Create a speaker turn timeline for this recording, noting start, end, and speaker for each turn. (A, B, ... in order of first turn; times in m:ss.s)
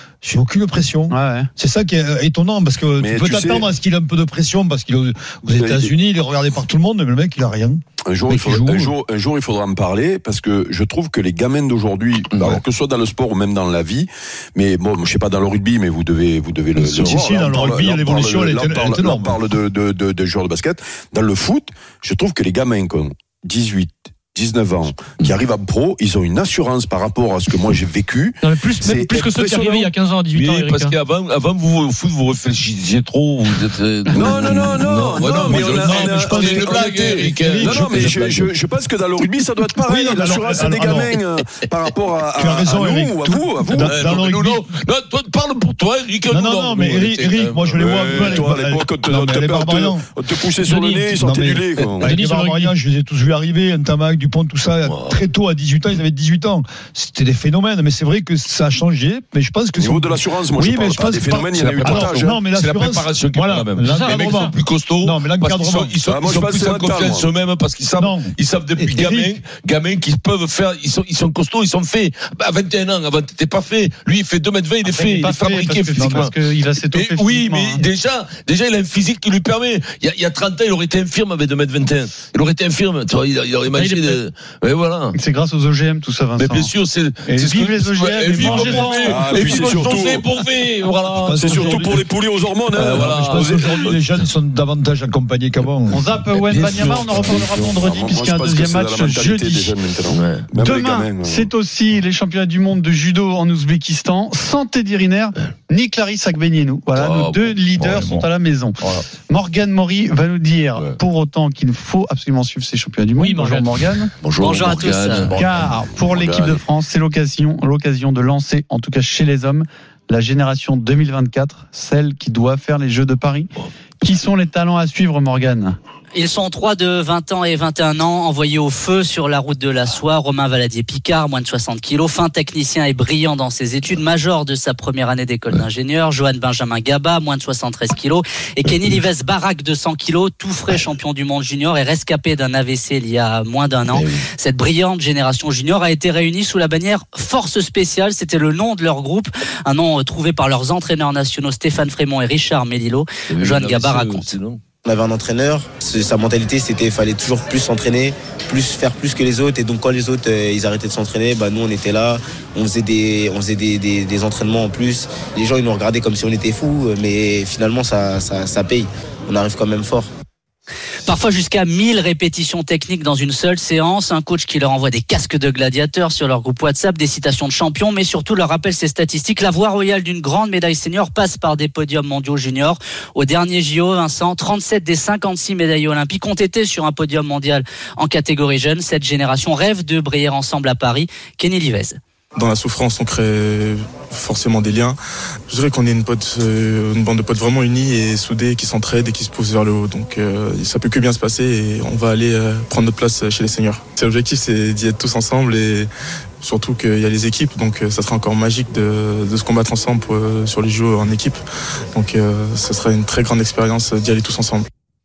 0:00.2-0:08.9 A
0:01.1-0:01.5 B
0:03.0-0:03.7 C
0:05.5-0:06.0 C
0:08.0-0:29.9 C
0:12.3-0:12.6 D
0:16.8-0:17.2 D
0:17.0-0:19.4 A
0:28.4-0:31.0 E
0:30.3-0:38.5 D
0:34.1-0:44.0 C
0:35.4-0:38.2 A
0:39.7-0:41.2 A
0:42.4-0:44.6 A
0:43.8-0:48.5 D
0:46.3-0:50.1 A
0:47.8-0:52.2 C
0:50.6-1:06.0 A
0:52.0-0:52.7 E
0:54.8-0:55.2 D
0:59.8-1:02.4 C
1:01.6-1:25.2 D
1:03.8-1:04.5 E
1:06.0-1:07.3 C
1:07.9-1:09.4 A
1:14.9-1:17.8 B
1:16.0-1:16.3 A
1:23.7-1:24.2 E
1:25.2-1:26.7 B
1:26.4-1:32.1 D
1:27.3-1:29.6 B
1:29.0-1:30.2 C
1:31.2-1:32.0 A
1:31.3-1:34.0 C
1:32.7-1:34.0 D
1:32.8-1:36.1 A
1:35.9-1:39.8 B
1:36.4-1:37.4 D
1:36.6-1:41.5 C
1:40.1-1:40.4 D
1:40.6-1:54.1 B
1:47.0-1:47.6 D
1:47.8-1:48.3 A
1:53.2-1:53.9 E
1:54.2-1:55.7 D
1:54.4-1:55.3 F
1:55.3-2:05.8 B
1:56.2-1:56.5 C
2:06.1-2:34.3 F
2:23.9-2:24.2 D
2:33.3-2:34.6 D
2:34.8-2:50.1 G
2:51.1-3:12.0 F
3:12.4-3:15.0 H
3:15.5-3:25.9 H
3:26.4-3:31.4 H
3:32.0-3:34.7 H